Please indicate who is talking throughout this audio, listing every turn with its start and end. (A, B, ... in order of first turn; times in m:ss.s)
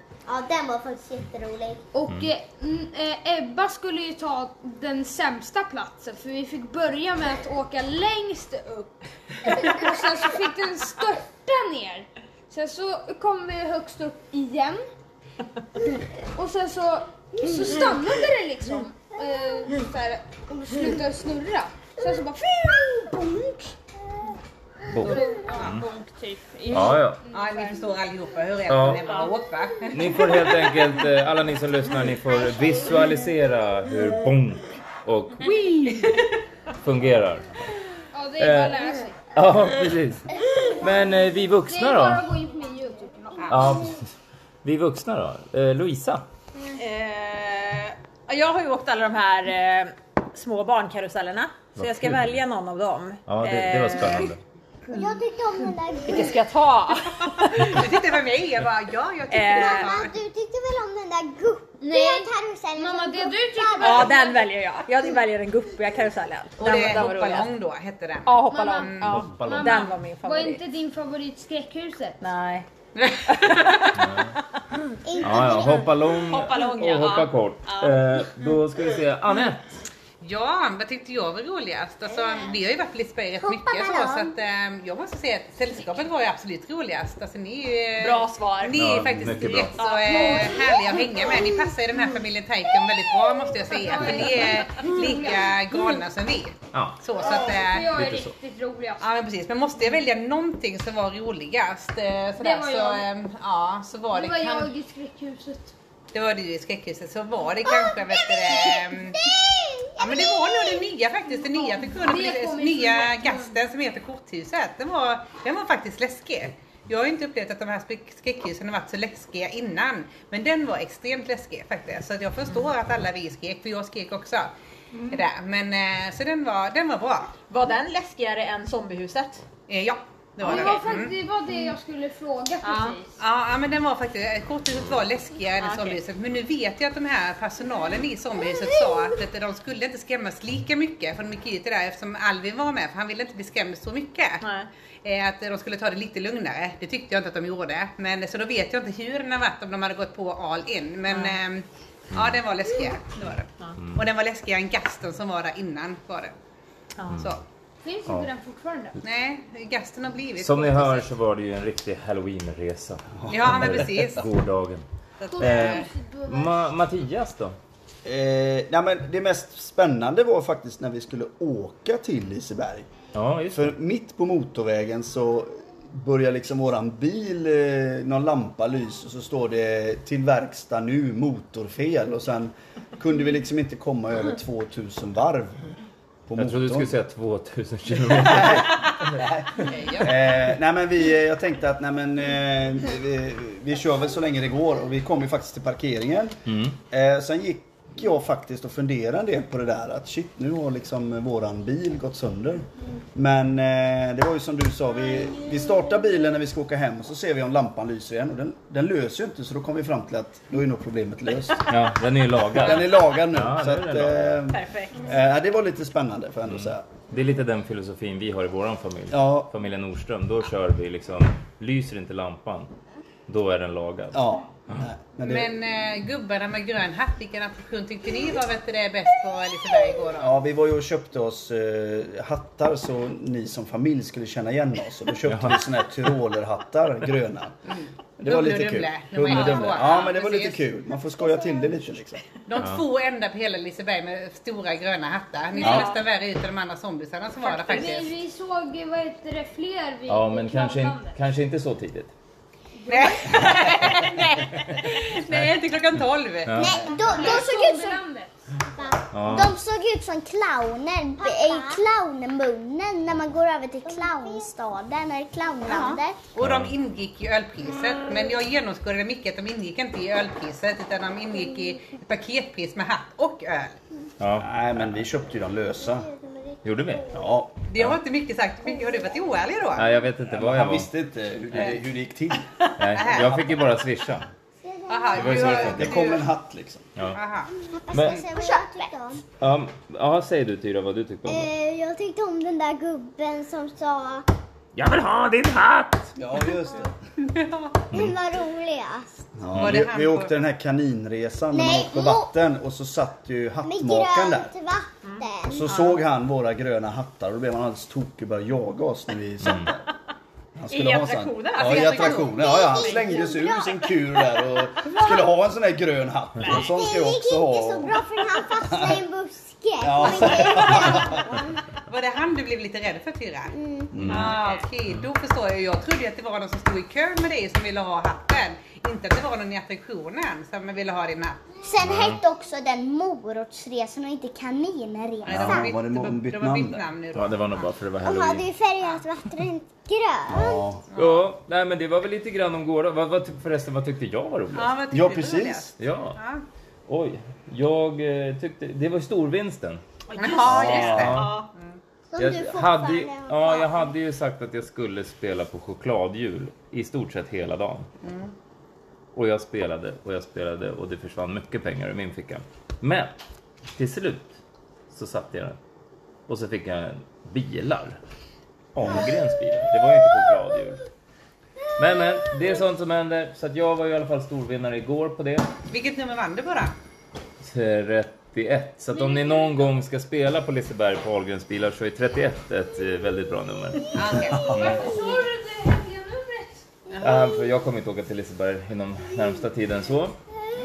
0:00.3-0:01.8 A
0:01.9-0:14.8 B
0:16.3-0:23.7 B
0:24.9-0:25.8 C
0:25.0-0:27.8 B
0:26.7-0:27.2 C
0:27.3-0:30.2 D
0:28.7-0:29.0 C
0:29.9-0:35.5 C
0:35.4-0:36.2 B
0:36.8-0:37.6 C
0:38.1-0:39.2 B
0:38.4-0:42.3 C
0:41.7-0:43.6 B
0:43.4-0:43.7 D
0:43.5-0:44.1 C
0:44.6-0:46.2 C
0:46.8-0:54.4 E
0:51.8-0:52.4 C
0:53.3-0:54.4 C
0:54.9-0:56.4 A
0:56.1-0:57.9 E
0:57.4-1:00.1 D
0:59.3-1:00.0 E
0:59.5-1:04.4 A
1:01.8-1:04.4 B
1:03.8-1:07.5 E
1:06.6-1:09.6 D
1:08.3-1:10.6 E
1:08.5-1:12.2 B
1:09.1-1:09.8 C
1:12.2-1:14.2 E
1:13.0-1:13.5 D
1:14.0-1:14.4 C
1:15.0-1:15.9 A
1:15.2-1:19.8 C
1:16.2-1:18.3 E
1:20.2-1:38.0 D
1:23.4-1:24.3 A
1:28.0-1:28.9 E
1:28.8-1:29.9 C
1:29.8-1:30.7 E
1:30.1-1:30.7 B
1:33.6-1:35.5 B
1:36.7-1:37.0 C
1:37.2-1:39.0 B
1:37.9-1:38.3 C
1:39.0-1:44.7 D
1:42.4-1:43.1 B
1:44.1-1:45.7 B
1:46.1-1:49.3 D
1:49.3-1:49.9 A
1:50.0-2:04.5 D
1:51.8-1:53.6 B
2:05.1-2:07.4 D
2:07.5-2:09.4 E
2:09.7-2:11.1 D
2:10.4-2:13.2 B
2:10.5-2:10.8 E
2:12.6-2:13.0 E
2:13.2-2:24.5 D
2:15.6-2:16.0 E
2:24.4-2:24.7 E
2:25.0-2:36.4 D
2:31.1-2:31.4 E
2:32.1-2:32.4 C
2:33.8-2:34.0 C
2:37.0-2:37.2 E
2:37.1-2:37.4 C
2:37.8-2:39.0 B
2:39.0-2:41.1 D
2:40.4-2:44.9 C
2:43.3-2:44.3 D
2:45.2-2:45.9 D
2:45.3-2:46.6 B
2:45.4-2:47.6 C
2:48.0-2:52.9 F
2:53.2-2:53.8 C
2:53.5-3:05.7 F
3:06.3-3:06.9 F
3:06.4-3:08.9 C
3:08.0-3:31.7 F
3:09.6-3:10.3 D
3:16.5-3:16.8 C
3:31.7-3:34.4 C
3:32.5-3:36.9 F
3:34.5-3:35.0 E
3:36.5-3:42.7 C
3:39.1-3:39.5 F
3:43.3-3:44.2 C
3:44.1-3:45.6 F
3:45.2-3:50.4 D
3:50.2-3:57.6 F
3:55.3-3:55.6 C
3:57.7-4:00.6 D
3:58.2-4:02.2 F
3:59.4-3:59.9 E
4:02.5-4:08.1 D
4:05.6-4:05.9 F
4:07.5-4:11.2 B
4:10.1-4:12.1 C
4:12.8-4:13.6 B
4:12.9-4:17.3 D
4:16.5-4:16.9 C
4:16.6-4:18.0 A
4:16.9-4:18.4 B
4:18.8-4:26.2 A
4:19.1-4:19.6 C
4:25.7-4:26.0 E
4:25.7-4:33.8 D
4:26.4-4:26.8 C
4:34.2-4:34.9 C
4:34.4-4:36.1 F
4:36.1-4:36.6 A
4:36.6-4:37.1 C
4:37.1-4:37.5 F
4:37.7-4:39.9 D
4:39.8-4:40.9 C
4:40.3-4:43.7 F
4:42.8-4:44.3 C
4:42.9-4:43.4 D
4:44.6-4:45.7 A
4:44.9-4:46.3 D
4:45.1-4:46.1 C
4:45.6-4:46.9 F
4:47.0-4:47.2 C
4:47.1-4:48.6 D
4:47.7-4:49.3 A
4:47.9-4:48.2 C
4:49.4-4:51.5 C
4:51.3-4:54.3 A
4:54.8-4:56.1 C
4:56.2-4:57.0 F
4:57.3-4:57.7 D
4:57.9-4:59.1 A
4:59.4-5:04.5 F
4:59.5-4:59.8 C
4:59.6-5:00.3 D
5:01.5-5:02.3 A
5:03.6-5:05.8 A
5:05.0-5:06.0 E
5:05.5-5:09.8 F
5:09.4-5:09.7 C
5:10.6-5:18.0 F
5:10.7-5:13.4 E
5:11.6-5:12.6 D
5:12.3-5:13.7 A
5:16.5-5:21.5 A
5:18.6-5:19.0 F
5:19.8-5:21.3 F
5:21.9-5:23.6 D
5:23.5-5:24.0 A
5:23.9-5:24.4 F
5:24.0-5:24.3 C
5:24.1-5:31.6 D
5:31.6-5:35.7 A
5:31.8-5:32.2 C
5:35.3-5:37.7 D
5:35.3-5:36.8 F
5:37.1-5:38.5 C
5:38.0-5:40.6 A
5:40.3-5:40.8 F
5:40.9-5:41.3 D
5:41.0-5:44.8 C
5:44.5-5:46.4 D
5:44.9-5:45.7 F
5:45.8-5:46.2 C
5:46.9-5:49.8 C
5:50.1-5:51.5 E
5:50.2-5:51.8 D
5:50.5-5:51.3 F
5:50.5-5:51.4 C
5:52.1-5:53.9 A
5:52.2-5:57.9 C
5:58.0-5:58.3 D
5:59.1-6:03.1 C
6:03.8-6:04.4 C
6:04.9-6:05.6 C
6:06.3-6:08.0 C
6:08.7-6:10.8 C
6:11.8-6:15.5 C
6:15.7-6:16.8 D
6:17.4-6:24.9 C
6:23.9-6:24.8 D
6:24.4-6:26.6 B
6:26.9-6:27.2 D
6:27.0-6:30.2 C